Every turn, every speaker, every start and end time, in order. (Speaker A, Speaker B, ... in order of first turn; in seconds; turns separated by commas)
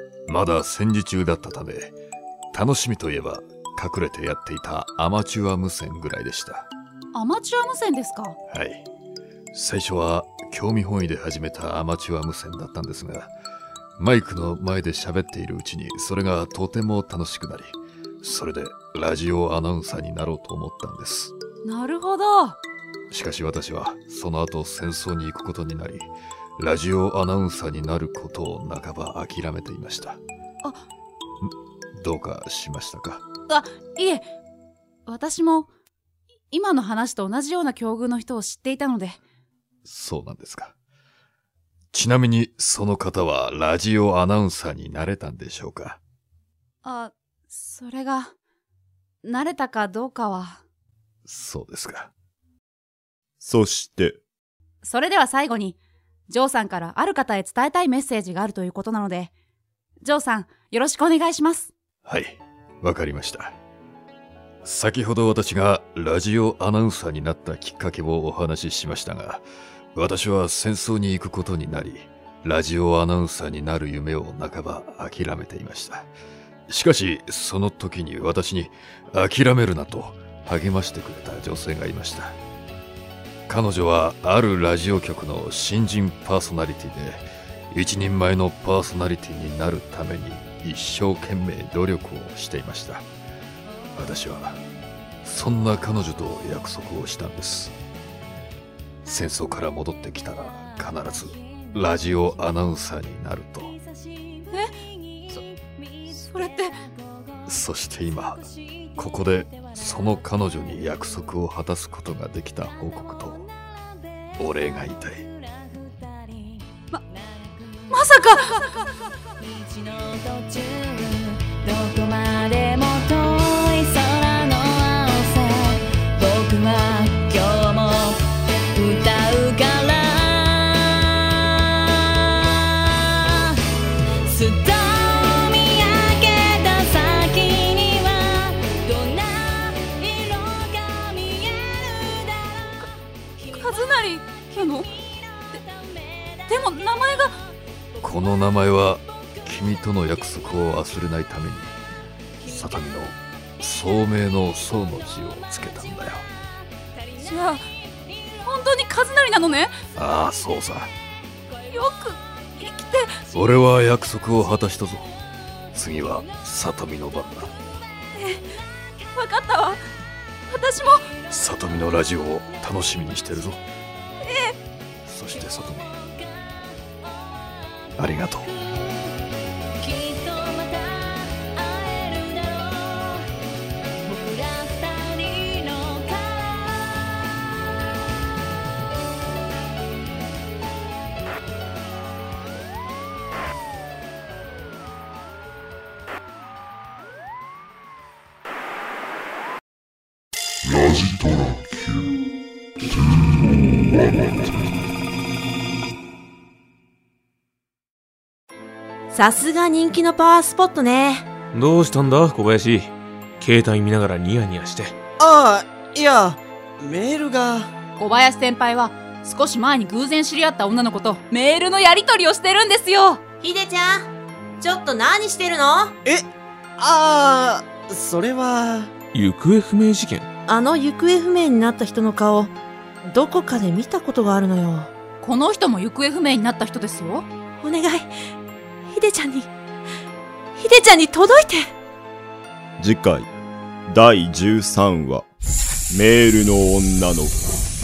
Speaker A: 0.3-1.9, Speaker A: 2.5-6.7, Speaker B: 7.1-8.4, Speaker A: 8.5-8.9, Speaker A: 9.5-13.3, Speaker A: 14.0-21.3, Speaker B: 21.6-22.6, Speaker A: 23.1-30.2, Speaker A: 31.4-33.2, Speaker B: 33.5-34.2, Speaker B: 35.0-35.7, Speaker B: 36.5-39.2, Speaker A: 39.8-40.7, Speaker A: 41.9-46.0, Speaker B: 46.8-48.3, Speaker B: 49.2-50.6, Speaker A: 51.2-52.1, Speaker C: 53.4-54.2, Speaker B: 54.8-55.8, Speaker B: 56.3-59.3, Speaker B: 60.0-61.7, Speaker A: 62.0-63.6, Speaker A: 64.6-76.1, Speaker A: 76.7-82.4, Speaker A: 83.5-93.1, Speaker A: 93.9-94.6, Speaker A: 95.2-97.7, Speaker A: 99.0-103.8, Speaker B: 106.1-106.8, Speaker A: 107.5-113.4, Speaker A: 114.4-115.3, Speaker B: 117.9-118.6, Speaker D: 120.2-128.2, Speaker D: 128.7-130.8, Speaker D: 134.3-141.3, Speaker B: 143.4-145.0, Speaker B: 146.4-147.3, Speaker A: 148.0-151.7, Speaker A: 152.4-156.2, Speaker B: 157.2-157.6, Speaker B: 158.4-159.7, Speaker A: 159.9-160.9, Speaker B: 161.7-163.2, Speaker A: 163.3-165.1, Speaker A: 165.7-167.5, Speaker B: 168.1-168.5, Speaker B: 169.1-169.8, Speaker B: 170.5-171.1, Speaker A: 171.3-173.6, Speaker B: 174.2-174.5, Speaker A: 175.0-176.0, Speaker A: 178.0-178.5, Speaker D: 179.8-183.2, Speaker D: 184.1-186.5, Speaker E: 209.1-211.3, Speaker F: 211.5-214.9, Speaker G: 215.2-217.7, Speaker B: 218.0-223.2, Speaker E: 223.4-225.9, Speaker G: 226.0-228.9, Speaker F: 229.1-230.3, Speaker E: 230.5-232.5, Speaker E: 233.0-234.9, Speaker B: 235.2-237.3, Speaker E: 237.6-238.1, Speaker E: 238.9-239.5, Speaker E: 240.6-241.7, Speaker C: 242.8-243.3, Speaker C: 243.9-245.2, Speaker C: 245.9-247.4